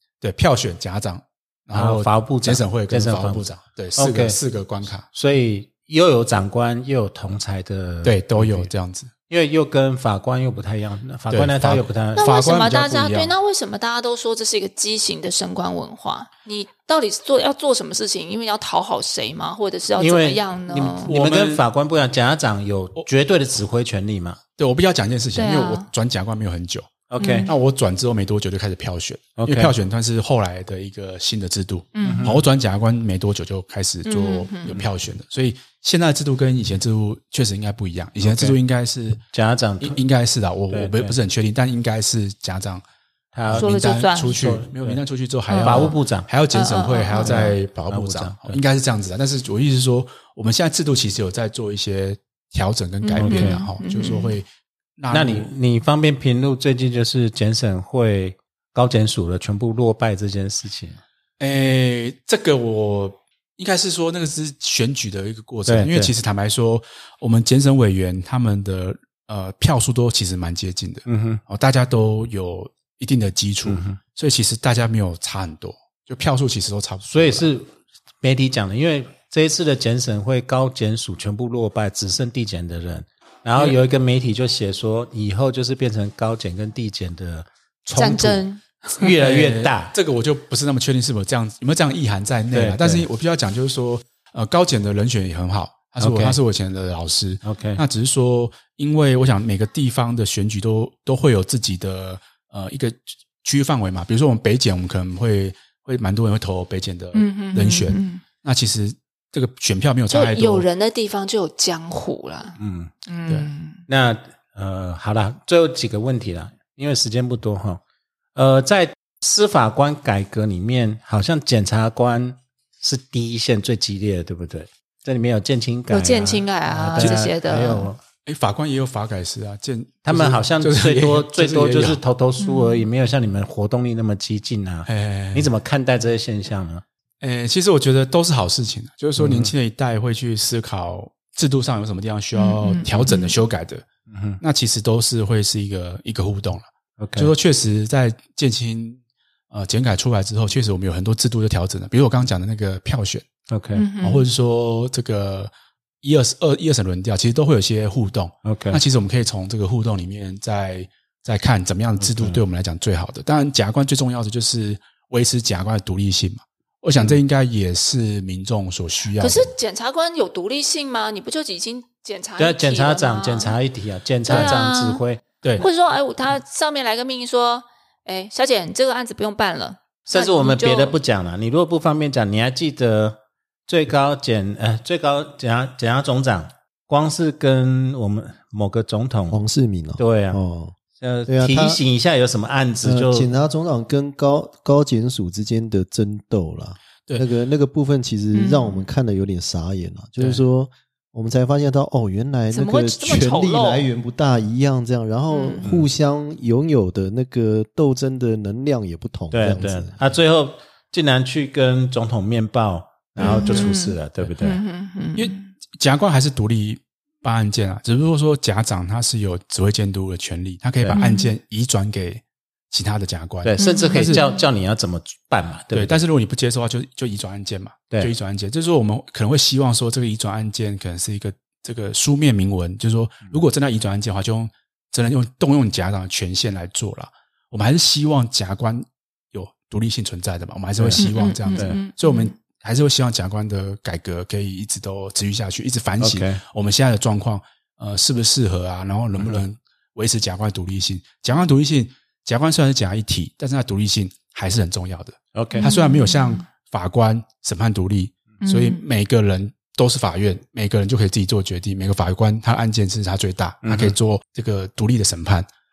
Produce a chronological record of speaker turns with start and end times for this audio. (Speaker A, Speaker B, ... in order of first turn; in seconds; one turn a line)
Speaker A: 0.2-5.0
Speaker B: 1.7-4.4
Speaker B: 5.1-8.7
Speaker A: 8.0-9.1
Speaker B: 9.3-12.3
Speaker A: 11.3-13.3
Speaker C: 12.2-21.1
Speaker B: 20.0-20.4
Speaker A: 20.7-21.6
Speaker B: 21.0-24.4
Speaker A: 24.6-26.9
Speaker C: 25.4-25.9
Speaker B: 27.1-27.5
Speaker C: 27.2-27.5
Speaker A: 27.5-39.2
Speaker B: 29.4-29.8
Speaker C: 31.9-32.3
Speaker B: 32.0-32.5
Speaker C: 34.0-34.8
Speaker B: 38.2-38.6
Speaker B: 39.3-40.0
Speaker A: 39.8-42.8
Speaker B: 40.7-41.2
Speaker B: 43.3-43.7
Speaker A: 43.5-55.5
Speaker C: 43.6-44.4
Speaker B: 44.2-45.0
Speaker C: 45.5-46.0
Speaker B: 45.6-46.3
Speaker C: 46.5-47.6
Speaker B: 47.1-48.6
Speaker C: 53.0-54.4
Speaker B: 53.2-53.6
Speaker B: 55.1-61.0
Speaker A: 61.4-77.5
Speaker B: 65.7-66.1
Speaker B: 71.1-71.4
Speaker B: 73.7-74.0
Speaker B: 77.1-77.7
Speaker B: 78.2-89.9
Speaker C: 88.0-89.1
Speaker A: 89.2-110.7
Speaker B: 92.5-93.1
Speaker B: 96.0-96.4
Speaker B: 97.4-97.8
Speaker C: 107.1-108.2
Speaker C: 110.1-113.8
Speaker B: 112.6-112.9
Speaker B: 113.9-117.8
Speaker B: 118.3-128.0
Speaker C: 125.9-127.9
Speaker A: 127.0-127.2
Speaker A: 128.2-132.0
Speaker B: 130.1-136.8
Speaker C: 132.4-132.9
Speaker A: 134.9-135.5
Speaker A: 137.2-143.8
Speaker B: 139.2-139.5
Speaker C: 142.3-143.3
Speaker B: 144.1-144.4
Speaker A: 144.4-149.0
Speaker B: 147.0-147.3
Speaker A: 149.5-153.3
Speaker B: 153.5-153.9
Speaker C: 153.8-154.3
Speaker A: 154.0-169.5
Speaker B: 158.4-158.8
Speaker B: 162.0-162.4
Speaker C: 169.2-173.6
Speaker B: 172.4-175.2
Speaker C: 174.3-175.0
Speaker A: 174.3-174.6
Speaker C: 175.6-181.0
Speaker B: 180.1-189.4
Speaker D: 189.3-190.7
Speaker B: 190.0-190.4
Speaker B: 191.0-193.3
Speaker D: 191.3-191.8
Speaker D: 192.8-210.0
Speaker C: 198.3-198.8
Speaker C: 202.5-203.9
Speaker C: 205.3-205.6
Speaker B: 205.6-205.9
Speaker B: 209.3-214.6
Speaker C: 213.2-215.5
Speaker A: 215.2-224.2
Speaker C: 220.9-221.3
Speaker B: 223.4-226.0
Speaker C: 223.6-224.4
Speaker A: 225.7-265.5
Speaker B: 240.8-241.8
Speaker C: 241.0-242.3
Speaker B: 246.0-246.4
Speaker B: 249.2-249.4
Speaker B: 255.3-255.7
Speaker C: 255.6-256.4
Speaker C: 258.4-258.8
Speaker B: 263.6-264.0